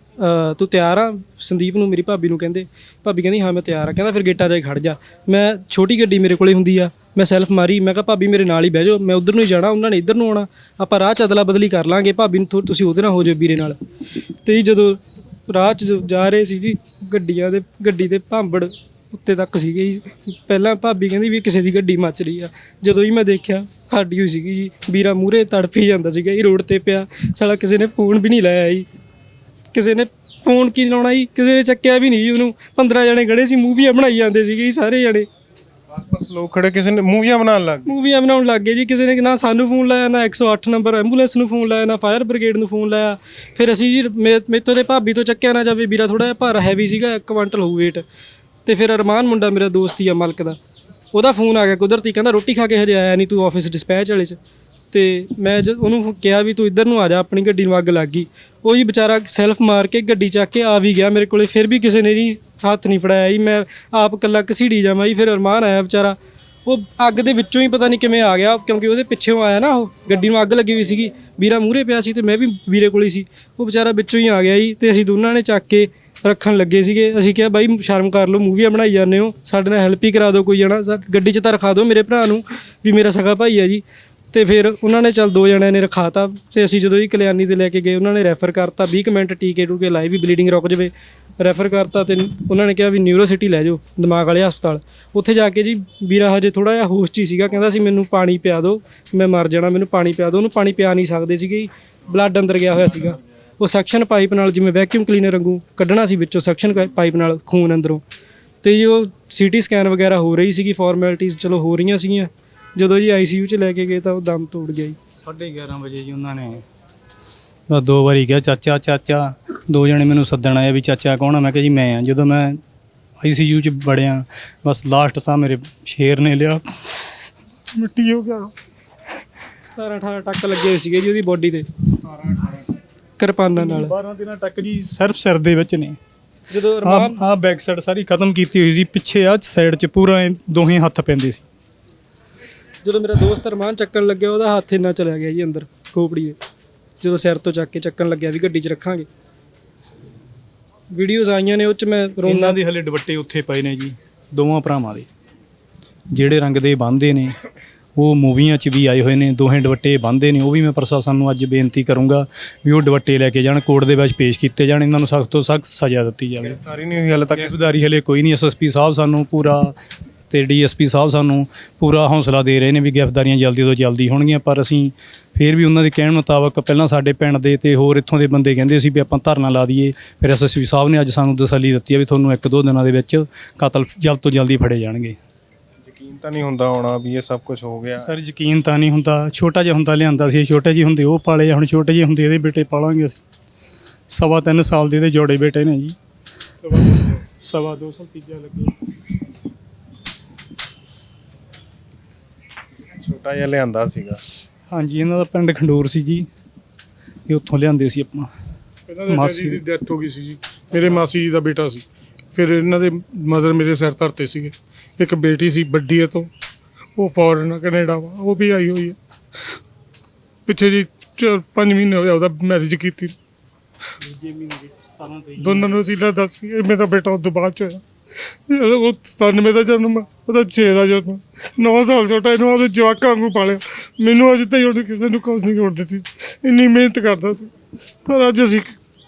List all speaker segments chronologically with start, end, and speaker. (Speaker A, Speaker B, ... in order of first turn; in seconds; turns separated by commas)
Speaker A: 0.2-13.8, Speaker A: 14.4-28.9, Speaker A: 29.7-35.3, Speaker B: 35.9-37.9, Speaker A: 37.9-48.0, Speaker A: 48.6-50.6, Speaker A: 51.1-54.4, Speaker A: 54.9-108.0, Speaker A: 108.6-115.0, Speaker C: 115.2-116.6, Speaker C: 117.7-122.6, Speaker C: 123.2-126.6, Speaker D: 127.7-128.5, Speaker A: 129.6-131.7, Speaker D: 132.2-132.5, Speaker A: 133.2-133.9, Speaker C: 133.5-136.0, Speaker A: 136.5-137.2, Speaker C: 136.8-141.4, Speaker A: 142.8-146.4, Speaker A: 147.0-149.1, Speaker A: 150.9-152.6, Speaker C: 152.2-155.1, Speaker C: 156.1-157.4, Speaker C: 157.9-166.6, Speaker B: 166.4-167.6, Speaker C: 167.3-169.7, Speaker C: 170.3-185.2, Speaker B: 185.8-188.1, Speaker C: 188.0-193.2, Speaker C: 194.1-195.9, Speaker C: 196.6-198.7, Speaker B: 202.9-204.2, Speaker C: 204.7-206.3, Speaker C: 207.3-208.3, Speaker D: 208.9-216.3, Speaker C: 209.1-209.6, Speaker D: 216.9-218.9, Speaker D: 220.5-223.2, Speaker C: 224.0-225.7, Speaker D: 225.4-237.5, Speaker D: 238.1-238.8